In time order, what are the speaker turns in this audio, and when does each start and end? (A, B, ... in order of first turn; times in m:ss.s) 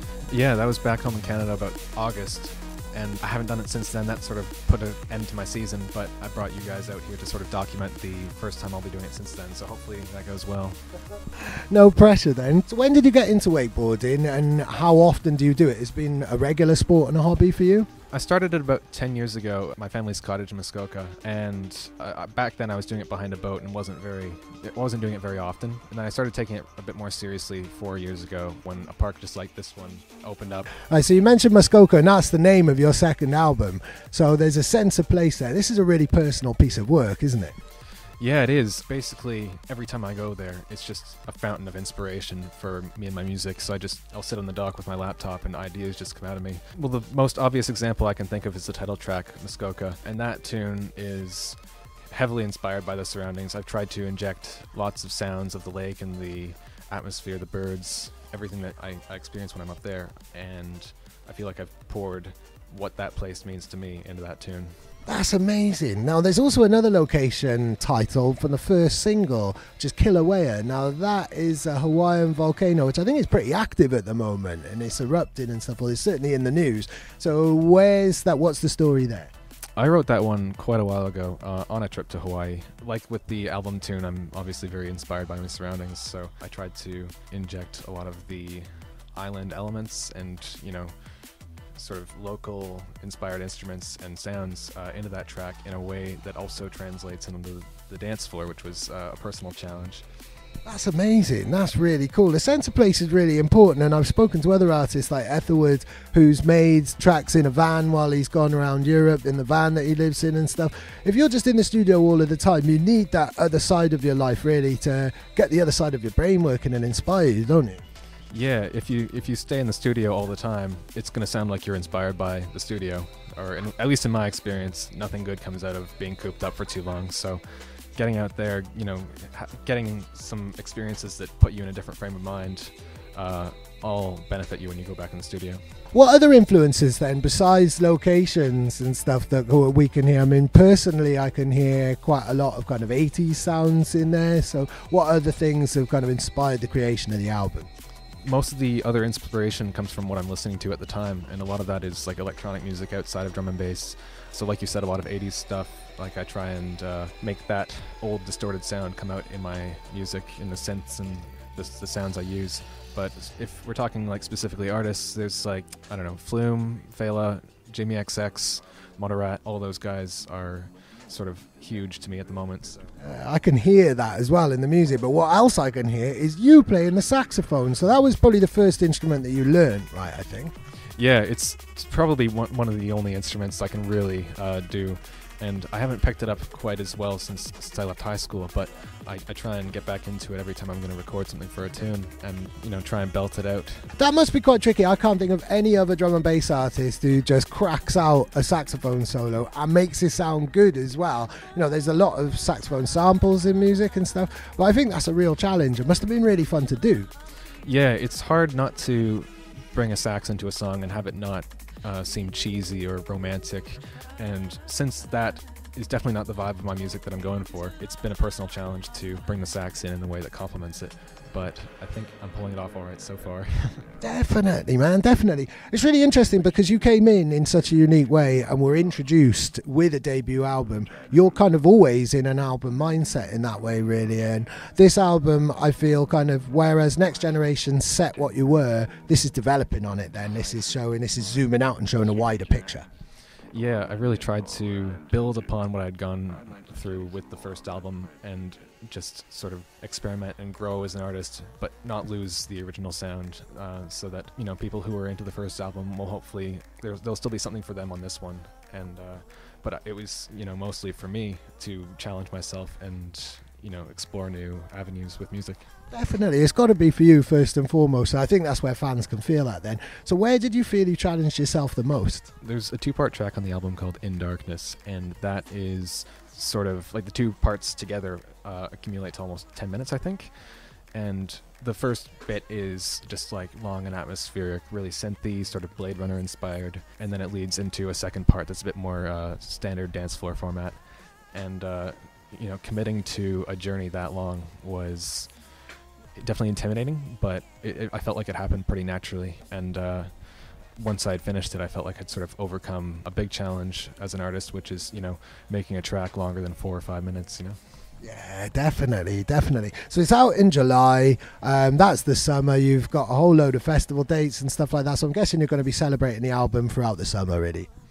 0:00.3-0:10.8 A
0:11.7-0:17.9 B
0:18.1-0:30.7 A
0:30.9-0:37.6 B
0:38.2-0:51.6 A
0:52.1-1:04.7 A
1:05.1-1:19.3 B
1:19.8-1:31.0 A
1:31.8-1:40.0 A
1:40.6-1:57.8 B
1:58.3-2:15.6 A
2:15.9-2:27.7 B
2:28.2-2:52.9 A
2:53.0-3:00.5 B
3:01.0-3:13.9 A
3:14.0-3:27.1 B
3:27.6-3:43.9 A
3:44.0-4:02.9 B
4:03.5-4:25.7 A
4:25.9-4:32.3 B
4:32.4-4:55.5 A
4:56.2-5:07.6 A
5:08.0-5:17.7 B